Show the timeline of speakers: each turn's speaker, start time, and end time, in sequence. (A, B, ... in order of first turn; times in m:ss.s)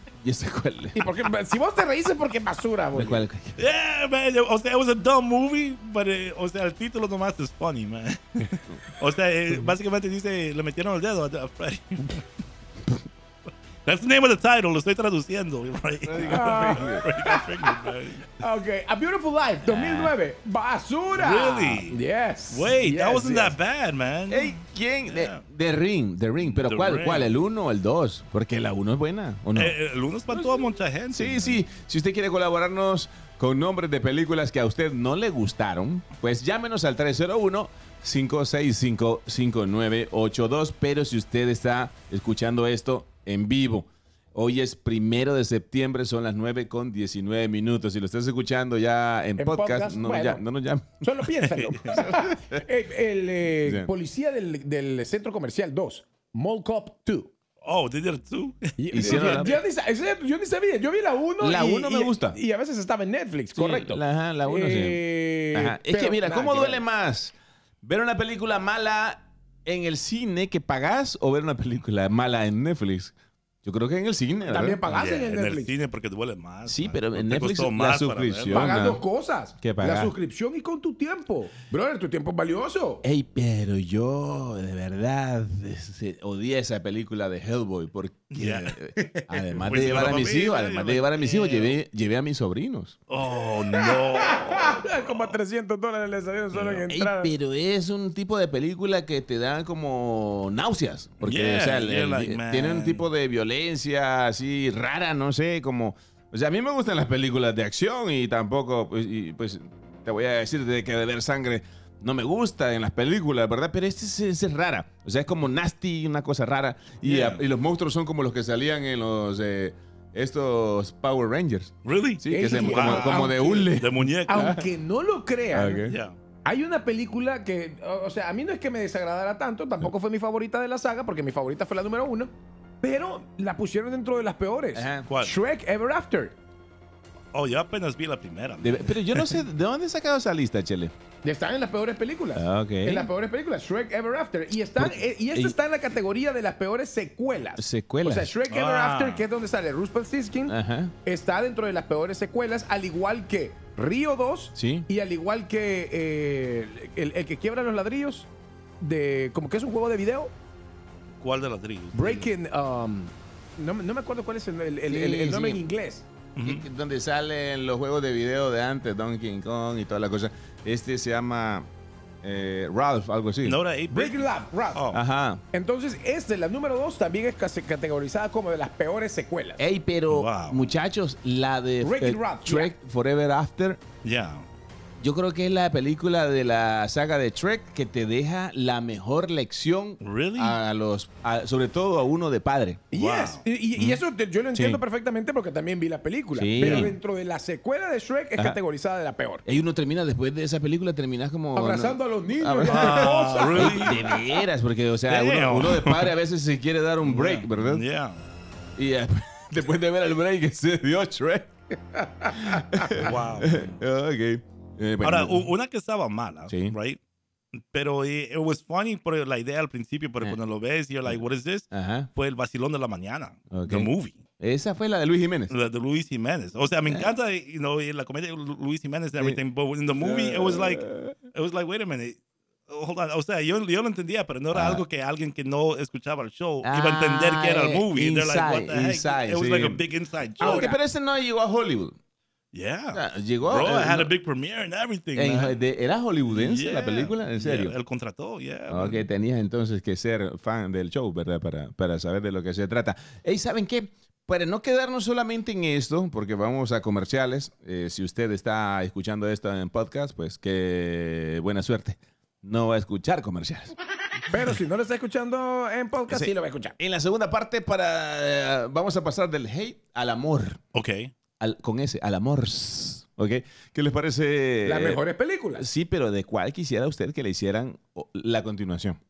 0:00.2-0:01.0 A
0:00.9-0:03.2 B
0:02.9-0:03.6 A
0:03.6-0:12.2 C
0:13.8-0:18.3 C
0:16.0-0:17.0 A
0:16.3-0:23.6 B
0:19.6-0:20.1 A
0:21.1-0:25.4 C
0:24.3-0:29.8 A
0:26.4-0:27.3 C
0:29.5-0:31.6 C
0:31.1-0:51.0 A
0:49.4-0:50.4 B
0:51.0-0:57.3 B
0:51.4-0:52.0 C
0:51.9-0:52.6 A
0:53.6-0:53.9 A
0:57.6-0:59.6 C
0:58.8-1:06.8 B
0:58.9-0:59.6 A
1:01.4-1:02.4 A
1:03.5-1:05.0 A
1:05.5-1:13.1 A
1:13.6-1:14.8 A
1:14.4-1:15.7 B
1:14.9-1:18.8 C
1:16.6-1:19.0 A
1:18.5-1:23.0 B
1:19.6-1:20.1 A
1:23.0-1:33.0 A
1:28.3-1:31.8 C
1:33.1-1:35.4 C
1:33.7-1:37.3 B
1:36.6-2:04.6 A
1:41.2-1:43.0 C
1:57.0-1:57.4 C
2:01.8-2:04.6 C
2:02.3-2:03.7 B
2:04.3-2:05.9 B
2:05.5-2:06.0 A
2:05.8-2:06.2 C
2:06.4-2:12.3 B
2:12.8-2:16.3 B
2:14.7-2:15.1 A
2:15.1-2:15.4 C
2:17.3-2:19.4 C
2:18.6-2:20.9 A
2:21.2-2:38.3 B
2:22.3-2:23.1 A
2:24.8-2:25.6 A
2:27.6-2:28.3 A
2:28.5-2:29.2 C
2:30.5-2:30.9 A
2:34.6-2:34.8 A
2:38.8-2:40.3 B
2:41.2-2:42.3 C
2:41.9-2:46.0 B
2:44.9-2:45.6 A
2:46.4-2:46.6 C
2:46.4-2:51.7 A
2:52.2-2:53.6 A
2:53.4-2:55.0 C
2:53.9-2:54.8 B
2:54.9-2:55.4 A
2:55.5-2:59.6 B
2:59.6-3:03.8 A
3:00.1-3:00.7 C
3:01.8-3:02.7 B
3:04.0-3:04.5 C
3:05.0-3:12.8 A
3:10.0-3:10.6 C
3:12.9-3:19.4 B
3:12.9-3:13.4 C
3:14.5-3:14.8 A
3:16.3-3:16.9 A
3:16.6-3:16.9 C
3:19.4-3:27.8 A
3:21.5-3:24.2 B
3:22.6-3:24.0 C
3:25.1-3:26.1 C
3:27.0-3:28.2 C
3:28.8-3:31.5 A
3:32.2-3:32.7 B
3:32.3-3:35.5 A
3:33.0-3:33.8 C
3:35.0-3:37.0 C
3:36.5-3:36.8 A
3:37.5-3:44.2 C
3:41.0-3:42.1 A
3:43.5-3:45.5 A
3:45.5-4:00.7 C
3:46.9-3:47.1 A
3:50.0-3:51.2 A
3:54.5-3:54.8 A
3:56.6-3:59.8 A
4:00.4-4:00.8 B
4:00.4-4:02.0 A
4:02.5-4:05.6 C
4:02.9-4:04.1 A
4:05.2-4:07.7 A
4:06.3-4:09.0 C
4:08.7-4:23.7 A
4:24.3-4:26.8 B
4:26.1-4:30.6 A
4:30.7-4:31.1 C
4:31.4-4:35.0 A
4:34.6-4:35.7 B
4:35.6-4:39.0 A